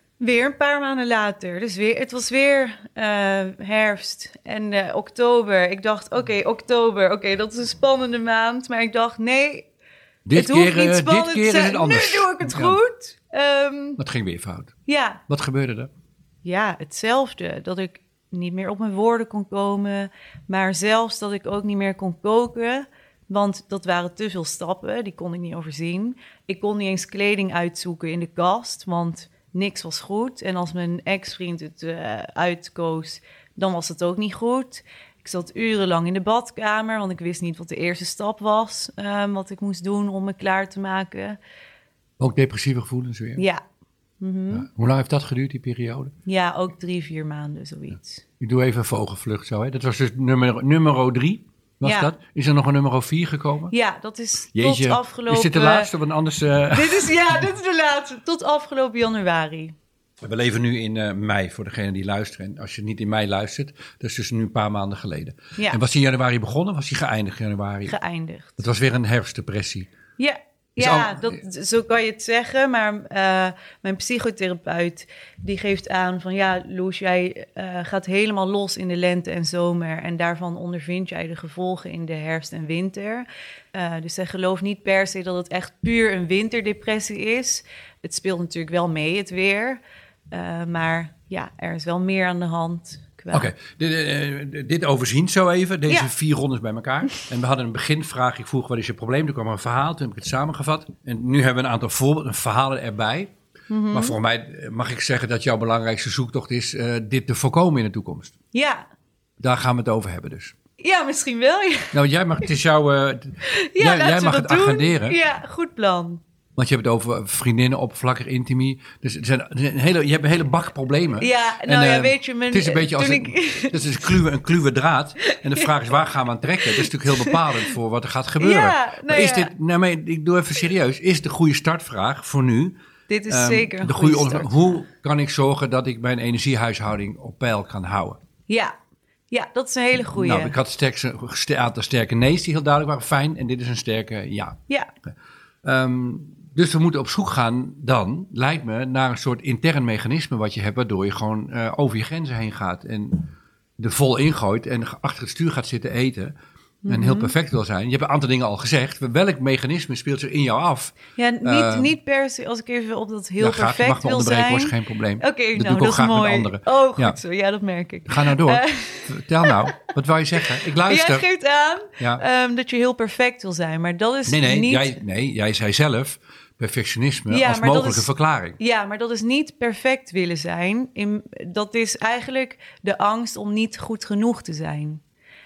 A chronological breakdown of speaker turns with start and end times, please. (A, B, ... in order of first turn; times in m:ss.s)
0:00.2-0:09.7 A
0:10.2-0:12.8 B
0:10.3-0:14.0 A
0:14.0-0:14.7 B
0:14.8-0:15.2 A
0:15.3-0:15.9 B
0:16.4-0:41.4 A
0:42.2-0:43.4 B
0:43.4-0:43.6 A
0:44.2-0:44.7 A
0:44.5-0:46.1 B
0:46.2-0:48.2 A
0:48.4-0:53.7 B
0:51.8-0:52.1 A
0:53.7-0:55.9 A
0:54.5-0:57.4 B
0:56.7-0:59.7 A
1:00.2-1:07.9 B
1:07.9-1:08.6 A
1:08.6-1:09.9 B
1:10.2-1:29.8 A
1:10.8-1:11.4 B
1:30.3-1:33.5 A
1:33.3-1:43.3 B
1:43.7-1:44.2 A
1:43.9-1:48.3 B
1:48.5-1:48.9 A
1:49.4-1:50.5 B
1:50.8-1:52.0 A
1:51.9-1:55.2 B
1:53.4-1:56.2 A
1:56.6-2:12.8 B
2:01.2-2:04.2 A
2:05.2-2:05.7 A
2:06.6-2:07.7 A
2:08.4-2:09.5 A
2:13.1-2:14.8 A
2:13.3-2:18.2 B
2:18.5-2:18.7 A
2:19.3-2:20.6 A
2:20.1-2:24.6 B
2:25.6-2:36.3 B
2:36.8-2:37.3 A
2:36.9-2:41.9 B
2:41.1-2:49.6 A
2:43.4-2:47.2 B
2:48.1-2:51.2 B
2:50.8-2:55.0 A
2:52.0-2:52.2 B
2:54.3-2:58.6 B
2:57.3-2:58.1 A
2:58.6-3:05.0 A